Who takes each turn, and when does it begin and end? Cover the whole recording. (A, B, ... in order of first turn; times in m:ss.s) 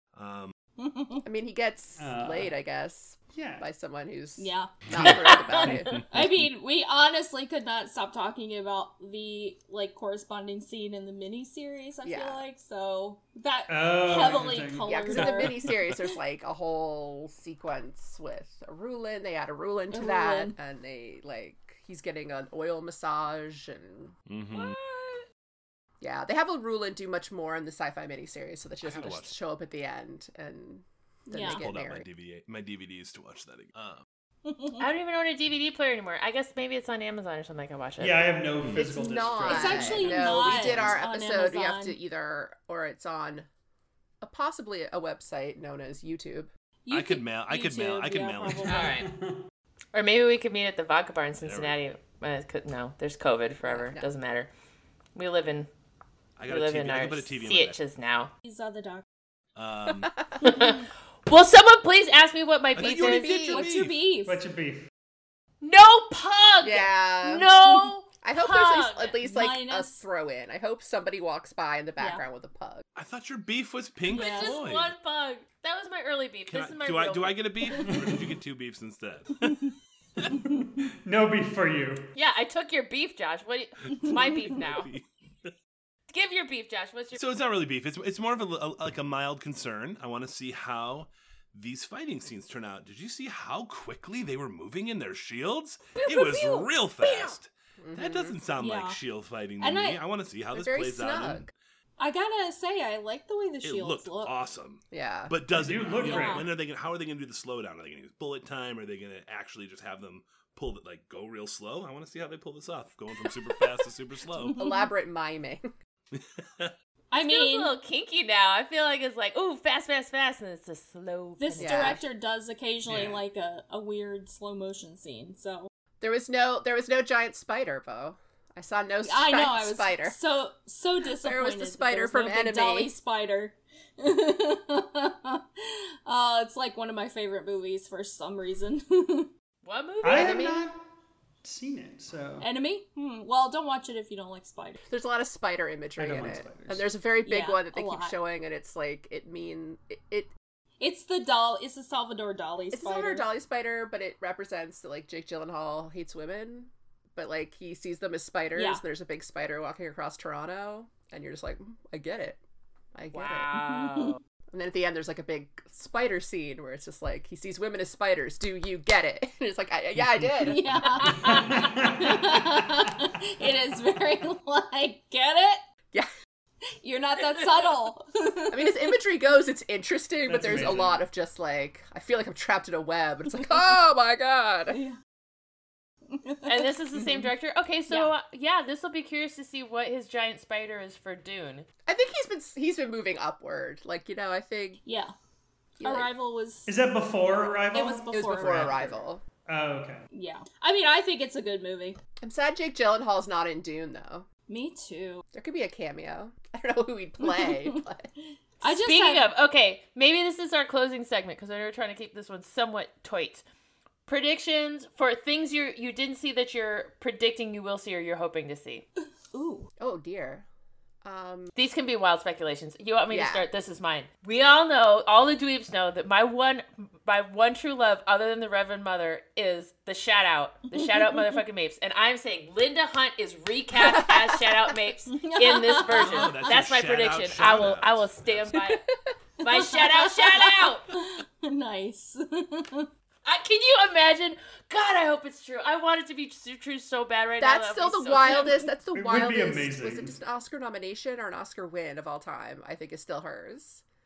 0:00.1-0:00.5 A
0:00.8-0:01.3 B
0:01.2-0:06.0 C
0:02.0-0:02.5 D
0:03.3-0:03.7 D
0:04.4-0:15.6 B
0:05.0-0:06.5 A
0:12.0-0:12.4 C
0:13.7-0:15.3 D
0:14.8-0:24.1 C
0:19.9-0:20.6 B
0:24.3-0:24.8 A
0:24.5-0:25.2 E
0:26.0-0:32.1 C
0:28.8-0:29.3 A
0:31.3-0:31.6 B
0:31.4-0:34.0 A
0:34.4-0:34.9 B
0:34.8-0:38.3 E
0:38.0-0:40.9 D
0:38.7-0:43.5 C
0:39.5-0:42.0 B
0:44.2-0:46.5 C
0:46.9-0:48.9 B
0:46.9-0:48.8 A
0:48.6-0:49.1 E
0:48.8-0:49.4 D
0:49.9-0:54.5 E
0:51.4-0:51.8 A
0:53.6-0:54.1 C
0:55.1-0:55.7 E
0:56.4-0:57.8 A
0:56.5-0:58.3 E
0:58.4-0:59.0 B
0:59.6-1:00.2 A
1:00.0-1:00.4 C
1:00.4-1:03.7 E
1:00.4-1:00.8 B
1:02.8-1:04.0 A
1:02.8-1:03.5 C
1:03.5-1:04.4 B
1:04.3-1:04.9 D
1:05.6-1:09.2 E
1:06.6-1:07.5 C
1:08.2-1:12.8 C
1:09.2-1:10.0 B
1:12.0-1:12.2 B
1:13.0-1:14.9 A
1:14.1-1:14.6 B
1:14.1-1:17.4 E
1:16.5-1:20.4 A
1:17.8-1:18.2 D
1:20.5-1:22.0 D
1:22.1-1:24.9 E
1:24.0-1:25.5 A
1:26.1-1:27.2 E
1:27.1-1:41.5 A
1:36.0-1:37.4 E
1:37.8-1:38.4 C
1:38.6-1:39.0 B
1:39.6-1:40.0 B
1:40.5-1:41.5 C
1:42.0-1:44.3 B
1:43.6-1:54.6 A
1:44.9-1:45.3 C
1:45.5-1:46.5 D
1:46.0-1:46.4 B
1:54.4-1:54.9 B
1:54.6-1:55.7 C
1:56.1-1:56.7 A
1:57.1-1:57.7 B
1:57.1-2:02.0 E
2:01.4-2:05.7 B
2:01.6-2:02.0 C
2:02.9-2:03.2 D
2:06.0-2:10.2 C
2:09.0-2:19.3 B
2:11.1-2:12.9 C
2:19.6-2:20.5 E
2:20.0-2:20.8 D
2:20.1-2:20.6 C
2:21.4-2:22.4 D
2:22.4-2:24.8 B
2:24.9-2:30.3 C
2:26.0-2:26.9 D
2:27.2-2:28.2 B
2:30.8-2:33.3 B
2:32.7-2:42.4 C
2:38.6-2:38.8 B
2:43.0-2:43.5 C
2:43.1-2:44.2 E
2:43.7-2:44.1 B
2:44.5-2:50.6 C
2:50.4-2:55.6 B
2:51.0-2:51.7 E
2:51.0-2:52.9 D
2:56.8-2:58.9 B
2:58.5-3:04.8 C
3:00.3-3:01.0 D
3:04.7-3:05.0 B
3:06.1-3:06.7 B
3:06.4-3:11.7 E
3:11.9-3:14.8 C
3:14.8-3:15.1 B
3:15.8-3:16.1 C
3:15.8-3:16.7 B
3:16.7-3:20.1 D
3:17.7-3:18.8 B
3:18.1-3:19.2 C
3:20.1-3:22.0 B
3:22.2-3:24.3 C
3:24.5-3:25.2 B
3:25.3-3:28.1 C
3:27.2-3:27.8 B
3:28.6-3:29.3 B
3:28.6-3:33.4 E
3:34.1-3:38.8 E
3:39.3-3:39.7 B
3:39.8-3:40.4 C
3:41.0-3:41.5 C
3:41.6-3:58.8 E
3:43.1-3:43.4 C
3:50.8-3:51.3 B
3:53.8-3:54.6 C
3:55.1-3:56.6 B
3:55.9-3:58.5 A
3:59.4-4:00.9 E
3:59.4-4:02.9 B
4:03.2-4:08.7 E
4:07.4-4:13.8 C
4:08.2-4:08.6 B
4:08.9-4:10.2 D